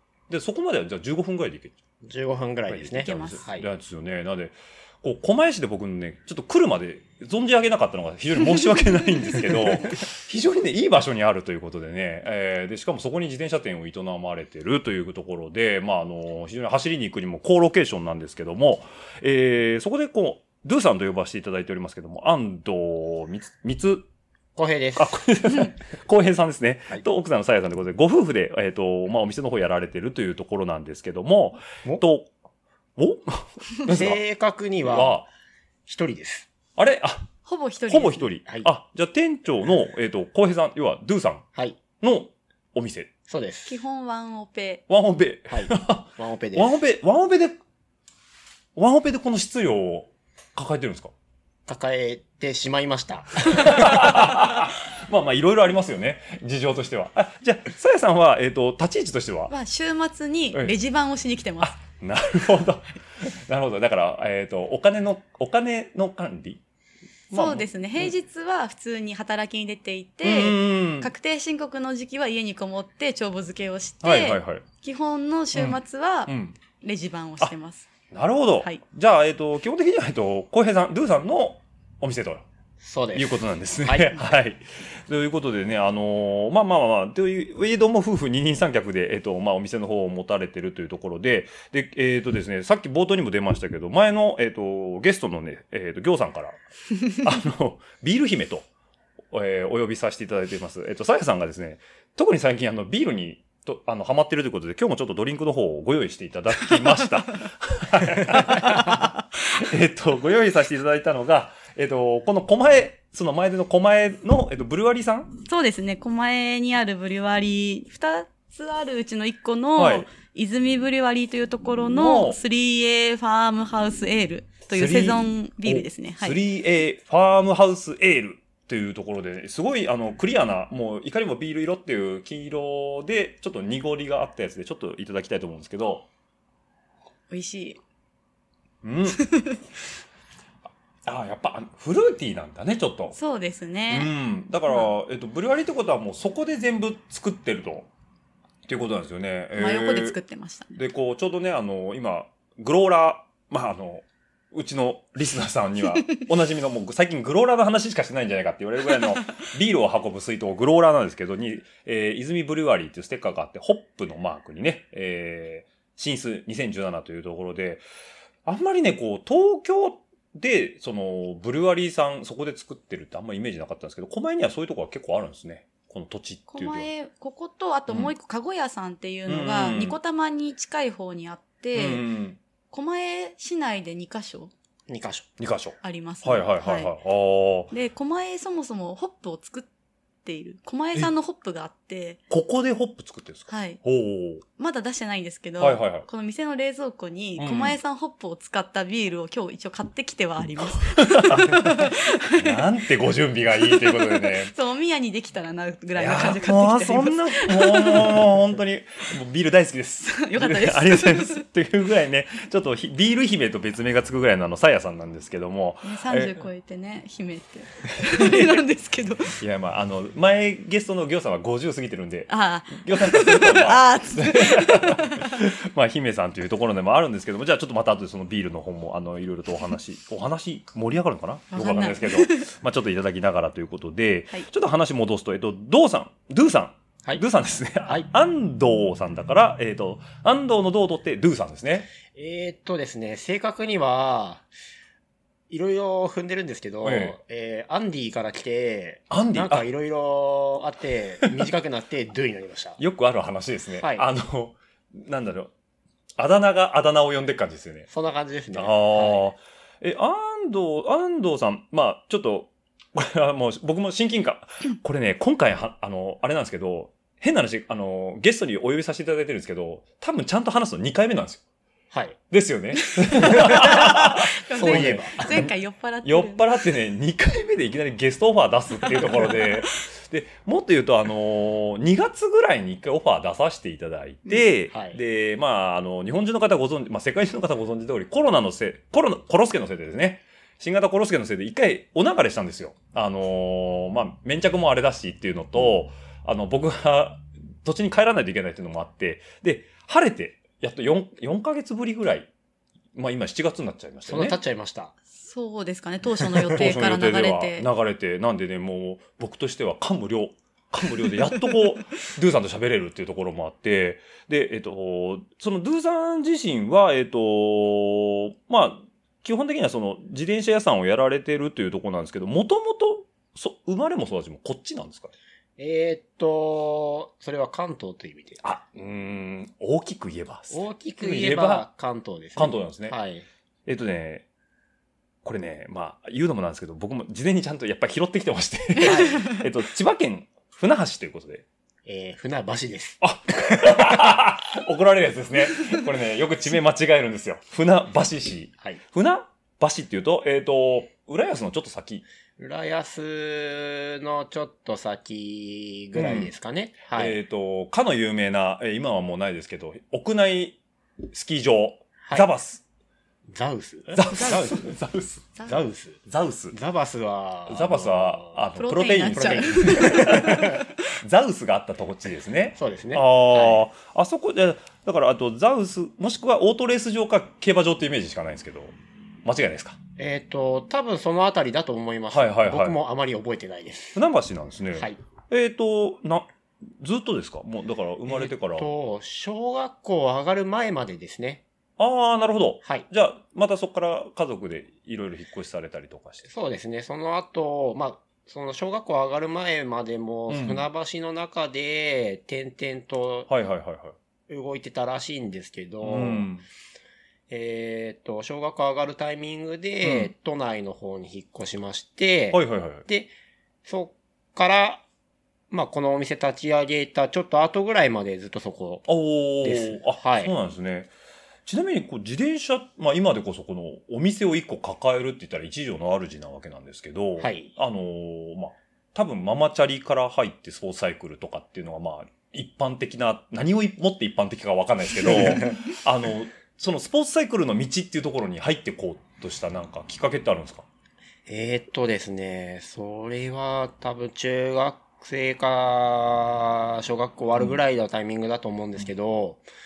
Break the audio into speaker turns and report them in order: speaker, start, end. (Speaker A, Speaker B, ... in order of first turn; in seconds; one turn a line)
Speaker A: 0.3-1.8
Speaker B: 2.0-3.7
Speaker A: 2.7-24.1
Speaker C: 3.0-3.4
Speaker B: 24.6-25.1
Speaker A: 24.9-32.3
Speaker A: 33.0-34.2
Speaker B: 33.9-35.2
Speaker A: 34.8-35.3
Speaker B: 35.9-36.5
Speaker A: 36.8-37.3
Speaker C: 37.5-38.3
Speaker A: 37.9-41.5
Speaker A: 42.0-43.1
Speaker B: 43.3-43.7
Speaker C: 43.7-44.8
Speaker A: 44.9-47.6
Speaker B: 45.5-46.8
Speaker A: 48.7-51.1
Speaker B: 51.7-54.1
Speaker A: 53.5-59.5
Speaker C: 59.5-61.8
Speaker A: 61.6-66.6
Speaker A: 67.3-68.1
Speaker C: 67.3-77.9
Speaker A: 70.2-71.1
Speaker A: 74.0-74.7
Speaker A: 75.5-76.6
Speaker A: 78.1-82.4
Speaker B: 82.8-84.2
Speaker A: 83.1-96.6
Speaker A: 97.1-98.7
Speaker A: 99.3-115.4
Speaker C: 115.5-126.4
Speaker A: 119.8-120.1
Speaker A: 121.9-122.4
Speaker A: 124.7-136.1
Speaker C: 137.3-137.8
Speaker A: 138.8-139.2
Speaker C: 139.2-139.6
Speaker A: 141.0-143.2
Speaker C: 143.1-144.1
Speaker A: 143.9-147.9
Speaker C: 144.7-144.9
Speaker A: 148.7-150.2
Speaker C: 149.6-150.8
Speaker A: 150.7-167.8
Speaker A: 168.4-176.9
Speaker C: 176.5-182.1
Speaker A: 179.3-180.0
Speaker A: 181.7-182.4
Speaker C: 182.7-184.5
Speaker B: 184.9-185.3
Speaker A: 185.4-187.7
Speaker C: 185.8-186.9
Speaker C: 187.7-189.7
Speaker C: 190.2-192.2
Speaker A: 192.3-194.4
Speaker C: 193.5-193.8
Speaker C: 194.6-202.7
Speaker A: 195.6-196.1
Speaker A: 197.4-197.8
Speaker A: 200.6-204.5
Speaker C: 203.6-208.2
Speaker A: 205.9-216.5
Speaker C: 210.1-211.4
Speaker C: 215.8-219.4
Speaker A: 218.0-218.6
Speaker A: 219.4-241.9
Speaker C: 222.3-225.4
Speaker C: 231.5-232.5
Speaker B: 242.1-244.5
Speaker B: 245.5-252.8
Speaker A: 246.8-247.2
Speaker A: 249.1-249.7
Speaker A: 252.8-255.5
Speaker B: 253.8-254.1
Speaker A: 256.2-257.9
Speaker B: 257.9-259.3
Speaker A: 258.5-271.4
Speaker B: 271.9-272.2
Speaker A: 272.3-275.5
Speaker C: 272.9-276.4
Speaker B: 273.3-275.4
Speaker A: 276.0-302.3
Speaker C: 278.9-279.6
Speaker B: 284.7-285.0
Speaker A: 302.9-304.4
Speaker B: 304.1-304.9
Speaker C: 305.2-307.7
Speaker A: 306.5-325.1
Speaker B: 325.6-328.4
Speaker A: 328.4-331.7
Speaker B: 330.5-333.2
Speaker A: 332.4-332.9
Speaker A: 333.6-334.2
Speaker A: 335.2-341.4
Speaker B: 338.8-339.2
Speaker B: 341.9-344.1
Speaker A: 343.0-352.0
Speaker B: 352.4-357.2
Speaker A: 355.9-356.3
Speaker A: 356.9-362.6
Speaker B: 363.3-364.7
Speaker A: 363.9-365.3
Speaker C: 364.1-364.5
Speaker B: 365.4-366.0
Speaker A: 366.1-366.6
Speaker B: 366.5-368.4
Speaker A: 367.5-378.7
Speaker C: 368.6-370.7
Speaker B: 369.1-370.6
Speaker B: 372.6-373.6
Speaker A: 379.2-379.8
Speaker B: 380.0-384.0
Speaker A: 382.1-382.8
Speaker A: 383.9-388.7
Speaker B: 388.1-391.4
Speaker A: 391.8-396.2
Speaker B: 396.2-403.3
Speaker A: 400.3-400.6
Speaker A: 403.3-403.9
Speaker B: 404.3-406.3
Speaker A: 405.8-406.4
Speaker B: 407.3-413.1
Speaker A: 409.8-410.1
Speaker A: 412.3-412.8
Speaker B: 413.6-414.8
Speaker B: 415.5-418.9
Speaker A: 418.9-420.9
Speaker B: 419.4-420.3
Speaker A: 421.4-440.6
Speaker B: 427.2-427.5
Speaker B: 441.3-449.4